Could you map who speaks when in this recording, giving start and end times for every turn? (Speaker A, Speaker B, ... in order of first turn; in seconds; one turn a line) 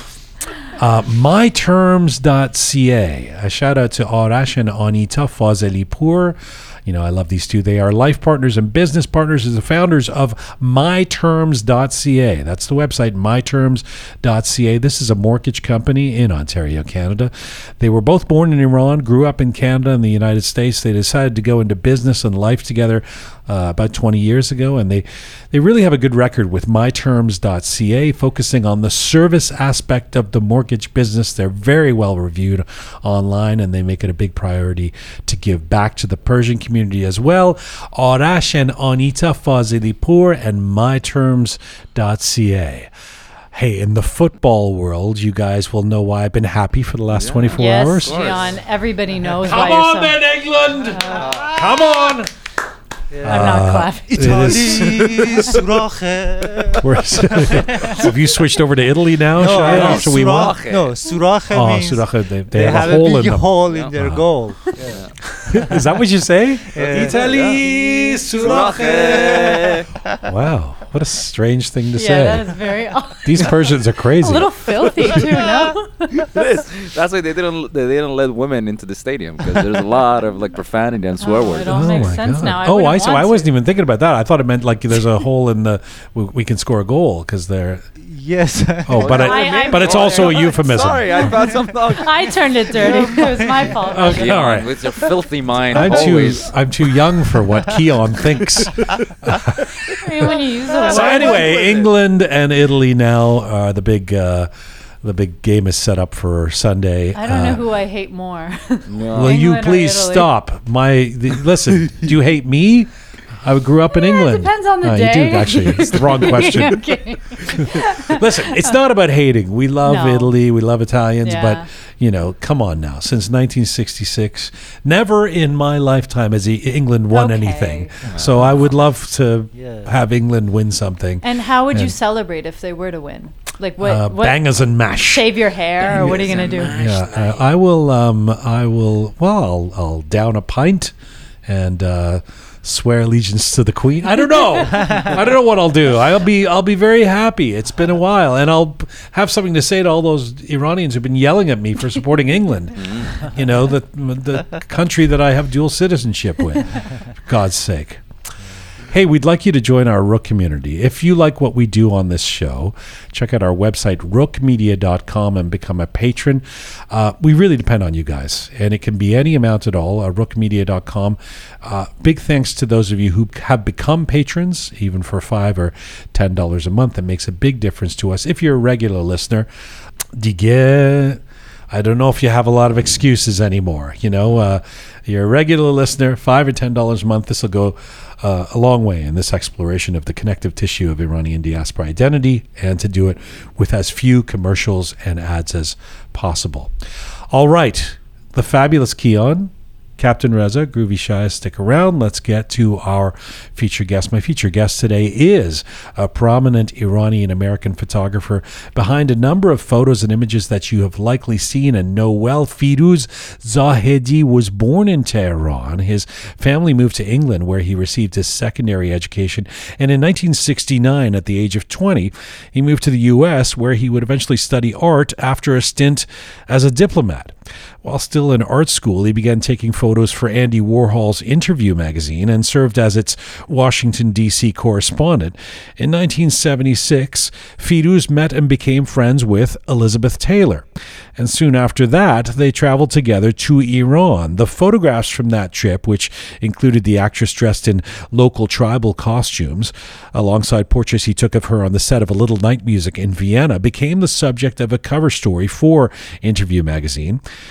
Speaker A: 0.8-42.9
Speaker A: 43.5-48.4
Speaker B: 47.1-48.5
Speaker C: 47.5-50.2
Speaker A: 49.4-52.3
Speaker C: 50.9-51.6
Speaker D: 53.1-58.1
Speaker C: 53.3-54.9
Speaker A: 53.3-55.6
Speaker B: 54.9-55.6
Speaker A: 56.8-60.6
Speaker D: 59.4-65.9
Speaker B: 59.4-60.9
Speaker A: 61.5-64.3
Speaker B: 62.6-63.1
Speaker B: 63.7-63.9
Speaker B: 64.8-65.1
Speaker A: 65.5-72.6
Speaker D: 66.7-70.2
Speaker B: 66.8-67.6
Speaker B: 68.3-69.9
Speaker C: 72.0-76.3
Speaker A: 73.2-75.3
Speaker B: 76.2-82.2
Speaker C: 81.2-83.5
Speaker A: 81.7-87.9
Speaker D: 88.0-89.3
Speaker A: 88.9-91.3
Speaker B: 88.9-93.3
Speaker C: 89.1-94.4
Speaker D: 91.2-94.4
Speaker A: 93.9-94.7
Speaker B: 93.9-96.6
Speaker A: 95.7-104.5
Speaker D: 95.8-96.3
Speaker C: 100.0-101.5
Speaker D: 100.2-101.8
Speaker B: 100.8-101.8
Speaker A: 105.0-107.7
Speaker C: 107.2-110.3
Speaker B: 108.9-109.5
Speaker A: 109.1-131.9
Speaker C: 114.0-118.8
Speaker C: 119.8-120.3
Speaker C: 121.2-121.7
Speaker C: 127.1-128.0
Speaker D: 128.0-128.7
Speaker B: 128.1-128.5
Speaker D: 129.5-130.0
Speaker C: 131.2-136.9
Speaker A: 133.8-135.3
Speaker A: 135.8-140.9
Speaker B: 136.0-137.4
Speaker A: 141.5-158.0
Speaker B: 152.8-153.3
Speaker A: 158.8-179.5
Speaker A: 180.2-196.7
Speaker A: 197.3-257.2